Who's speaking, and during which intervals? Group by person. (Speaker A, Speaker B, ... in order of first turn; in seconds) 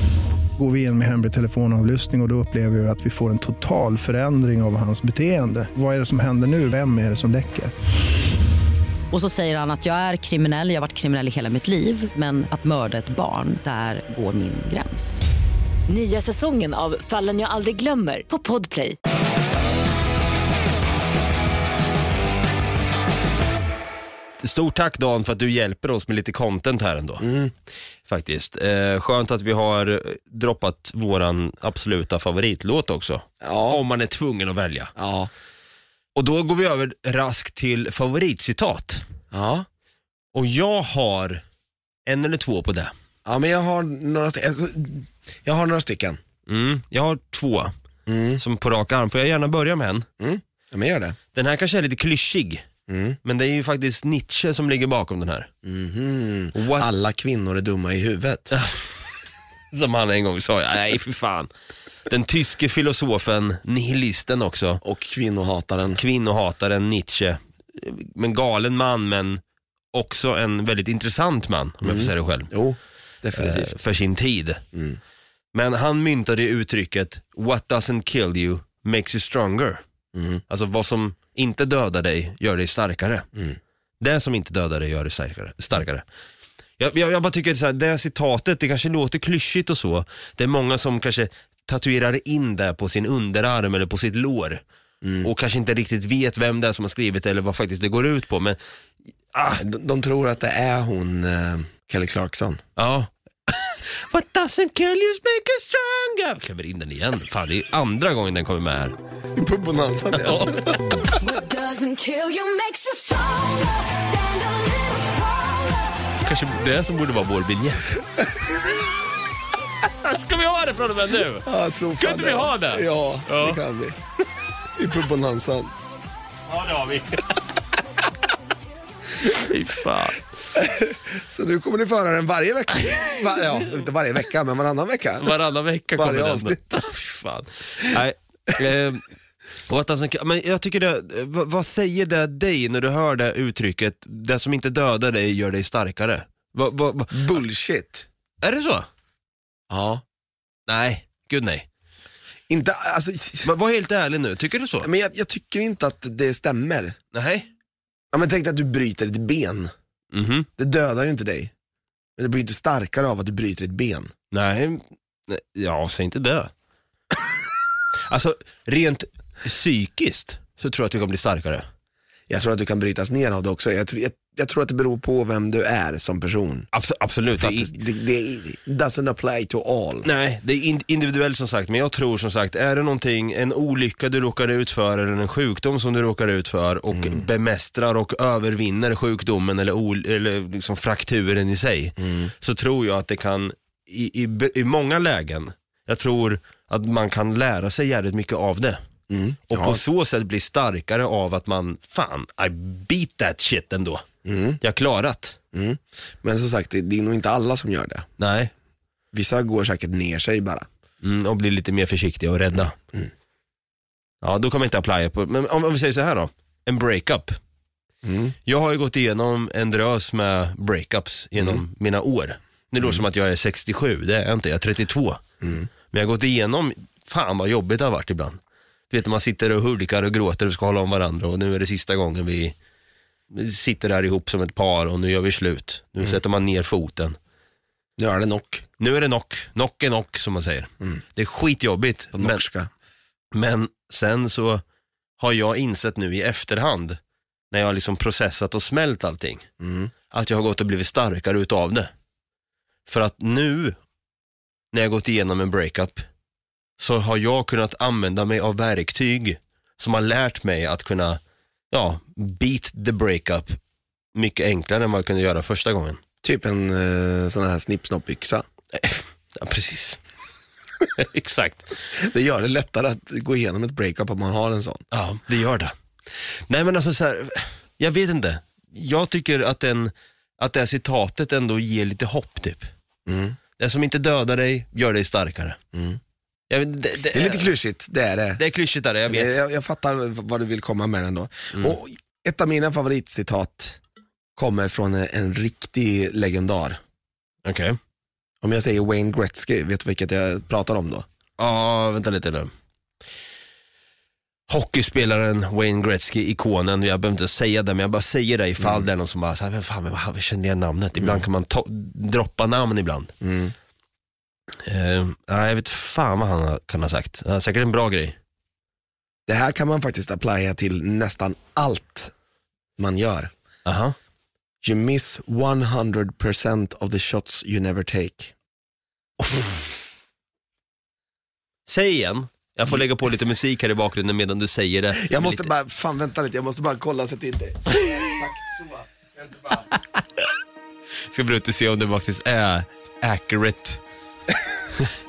Speaker A: 0.6-7.7
Speaker B: 9.1-15.2
Speaker C: 15.9-19.0, 111.2-115.7
Speaker D: 24.4-27.3, 28.1-34.9, 36.1-39.0, 40.3-41.4, 42.1-42.9, 46.5-47.7, 48.4-50.1, 51.3-52.6, 53.2-55.5, 56.5-56.9, 58.5-58.8, 59.7-61.5, 62.1-64.8, 66.0-69.4, 69.9-72.5, 73.3-74.6, 75.5-79.8, 80.5-83.3, 84.0-86.0, 86.8-94.6, 95.2-98.6, 99.3-99.6, 102.8-109.0, 110.2-111.2, 116.2-118.0, 119.8-121.5, 122.0-123.6, 126.5-127.3, 129.2-130.2, 132.8-133.3, 135.2-139.1, 139.7-147.4, 148.4-148.9, 150.7-151.7, 153.4-154.9, 157.1-157.5, 160.1-160.5, 164.3-166.5, 168.1-171.7, 176.7-177.8, 180.0-198.8, 199.5-204.1, 204.6-205.4, 208.2-208.5, 211.0-212.8, 214.2-217.4, 218.5-225.2, 225.9-228.4, 228.9-232.6, 233.3-237.2, 238.8-242.4, 243.3-244.6, 245.2-247.0, 247.5-249.5, 250.1-251.9, 252.9-253.8, 254.7-256.1, 256.8-261.2, 261.7-263.6, 264.1-266.0, 268.7-270.0, 271.0-271.7, 274.9-275.7, 276.5-282.7, 283.6-285.6, 286.5-287.5, 288.4-289.4, 297.4-297.8, 301.4-302.5, 304.5-313.1, 314.6-318.2, 323.7-323.9, 331.7-335.5, 341.1-343.8
Speaker E: 27.2-27.5, 33.4-33.8, 35.0-35.3, 39.3-39.7, 43.2-46.2, 48.1-48.4, 50.2-51.2, 52.9-53.2, 55.6-58.5, 64.8-66.0, 71.8-73.8, 74.7-75.0, 80.2-80.4, 95.0-95.3, 99.6-102.6, 109.3-111.0, 118.2-118.5, 121.4-124.0, 124.8-125.7, 130.5-135.4, 135.9-136.6, 147.1-148.1, 149.7-150.0, 152.5-153.5, 154.8-157.0, 158.1-159.7, 160.6-161.5, 162.2-164.1, 172.3-176.7, 177.4-180.1, 186.9-187.3, 192.0-192.3, 199.1-199.8, 204.2-204.6, 205.5-208.1, 209.1-210.7, 218.0-218.4, 225.4-225.7, 238.0-238.7, 242.1-242.7, 249.6-249.9, 266.2-268.4, 271.9-274.8, 283.1-283.4, 285.7-286.0, 287.1-288.4, 289.1-293.8, 294.4-296.8, 298.4-301.1, 308.6-308.9, 311.0-311.2, 313.2-313.5, 319.3-322.1, 322.8-323.3, 324.6-328.3, 329.2-329.5, 335.0-339.7